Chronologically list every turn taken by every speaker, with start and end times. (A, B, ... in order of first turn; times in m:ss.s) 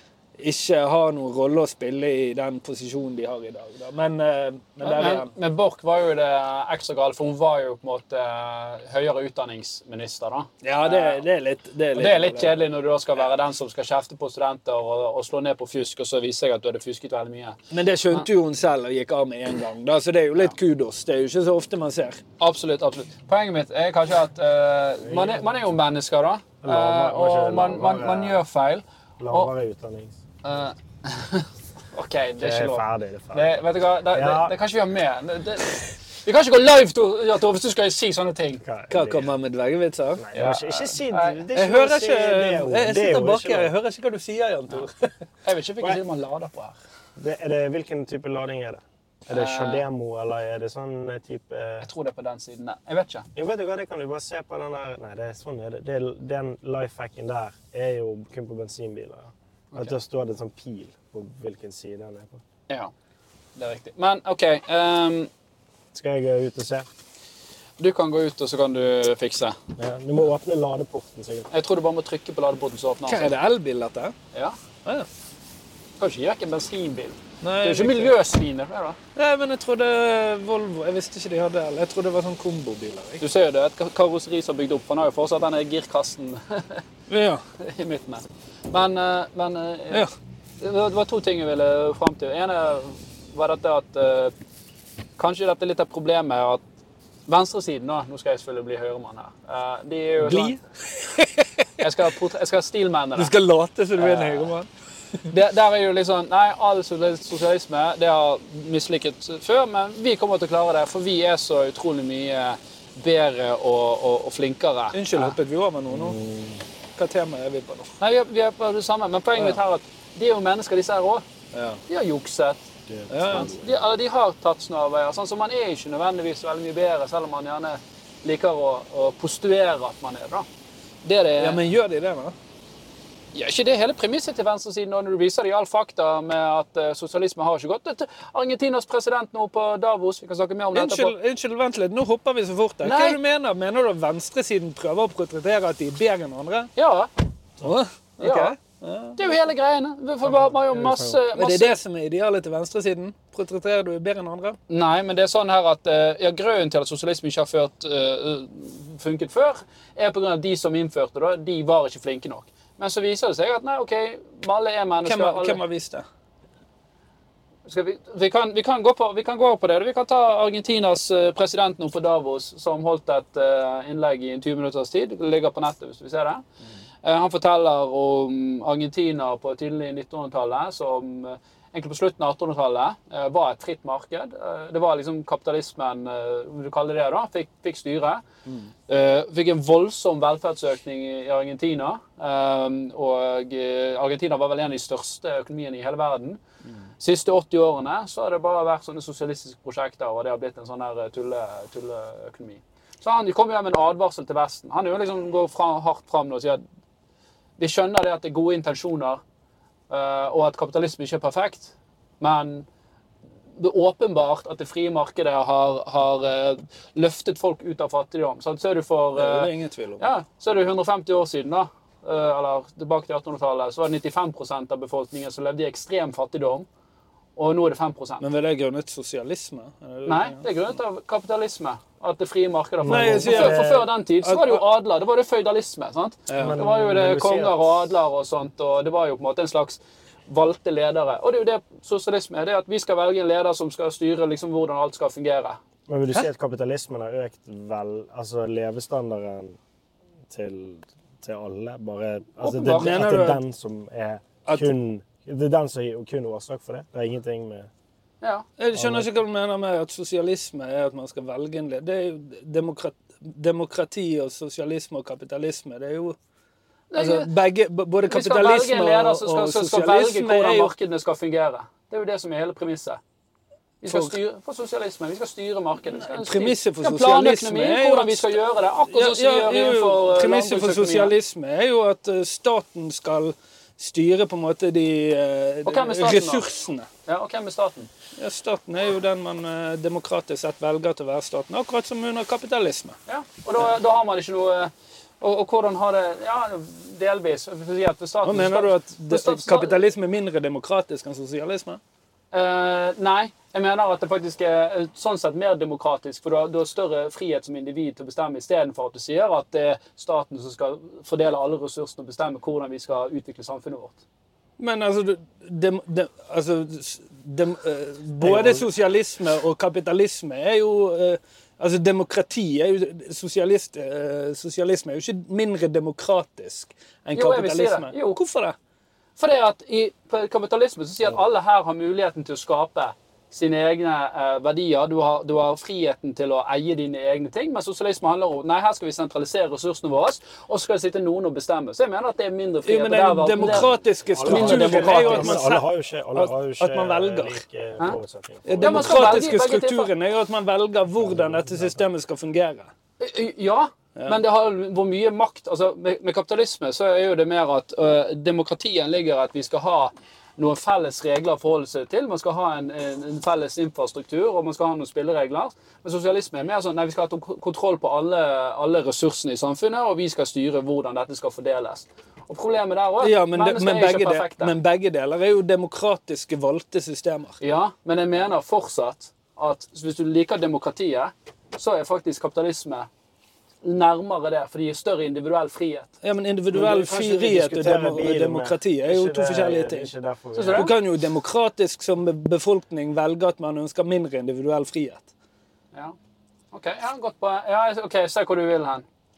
0:00.4-0:05.3 A
0:04.8-0:11.2 B
0:10.6-0:12.6 A
0:11.9-0:17.6 B
0:17.7-0:22.2 A
0:22.4-0:29.5 B
0:25.0-0:25.5 C
0:26.6-0:28.4 C
0:29.2-0:30.2 C
0:30.4-0:38.6 B
0:32.4-0:33.5 C
0:34.1-0:34.5 C
0:38.6-0:39.3 C
0:38.9-0:40.2 A
0:40.2-0:43.7 C
0:40.3-0:41.4 B
0:41.5-0:45.1 A
0:45.4-0:46.8 B
0:47.2-0:51.9 C
0:49.3-0:49.8 B
0:51.8-0:53.3 B
0:53.3-1:02.4 C
1:03.6-1:05.3 B
1:05.9-1:06.9 C
1:07.8-1:09.6 B
1:09.8-1:11.5 C
1:11.5-1:13.3 B
1:13.1-1:14.1 A
1:14.3-1:14.6 B
1:16.0-1:19.0 B
1:17.4-1:18.1 A
1:19.2-1:23.2 A
1:23.2-1:26.8 B
1:27.1-1:27.4 A
1:27.6-1:30.0 B
1:30.6-1:34.3 B
1:35.2-1:36.6 B
1:37.3-1:40.6 B
1:40.2-1:41.7 A
1:41.8-1:43.3 B
1:43.2-1:44.7 A
1:44.0-1:44.5 B
1:45.3-1:55.3 B
1:54.9-1:56.2 A
1:55.9-1:56.6 C
1:57.0-1:57.9 A
1:58.0-2:01.2 B
2:01.5-2:01.8 A
2:01.9-2:02.6 B
2:02.9-2:03.8 C
2:03.1-2:03.5 A
2:03.3-2:10.5 B
2:11.0-2:11.6 B
2:11.4-2:12.3 A
2:13.3-2:21.1 B
2:20.7-2:26.7 A
2:22.8-2:23.2 B
2:26.8-2:27.1 B
2:27.6-2:29.2 A
2:28.2-2:28.5 B
2:29.2-2:31.7 B
2:30.2-2:31.2 C
2:31.3-2:34.6 A
2:34.7-2:45.6 B
2:45.0-2:46.0 A
2:47.6-2:56.4 B
2:57.0-3:08.2 B
3:08.4-3:08.7 A
3:08.9-3:16.4 B
3:17.0-3:26.6 B
3:27.6-3:29.2 B
3:29.9-3:32.6 B
3:33.6-3:46.7 B
3:39.1-3:40.1 A
3:47.4-3:48.2 B
3:48.2-3:50.5 A
3:50.0-4:05.6 B
3:52.8-3:53.9 C
3:52.9-3:54.6 A
3:56.3-3:56.6 A
3:56.4-3:57.7 C
4:05.9-4:09.6 C
4:10.3-4:17.7 C
4:12.4-4:13.1 B
4:12.8-4:13.4 A
4:14.4-4:14.7 A
4:18.6-4:26.2 A
4:18.7-4:19.2 C
4:26.9-4:27.3 B
4:27.0-4:30.7 A
4:28.1-4:33.0 B
4:33.8-4:41.1 B
4:33.8-4:34.2 A
4:35.9-4:38.4 A
4:38.9-4:46.9 A
4:45.6-4:46.5 B
4:47.0-4:47.9 B
4:48.2-4:53.0 A
4:53.1-4:59.8 B
4:58.2-5:01.8 A
5:02.3-5:14.0 B
5:14.6-5:28.6 A
5:18.2-5:18.7 C
5:27.1-5:28.2 B
5:29.2-5:43.7 B
5:42.6-5:47.4 A
5:44.1-5:49.3 C
5:44.2-5:45.4 B
5:48.4-5:52.7 A
5:48.6-5:49.9 B
5:51.0-5:51.8 C
5:53.0-6:14.5 B
6:13.0-6:17.4 A
6:17.4-6:22.9 B
6:23.6-6:25.9 B
6:26.0-6:29.9 A
6:26.5-6:30.7 C
6:30.3-6:30.7 B
6:30.5-6:35.1 A
6:36.5-6:38.8 B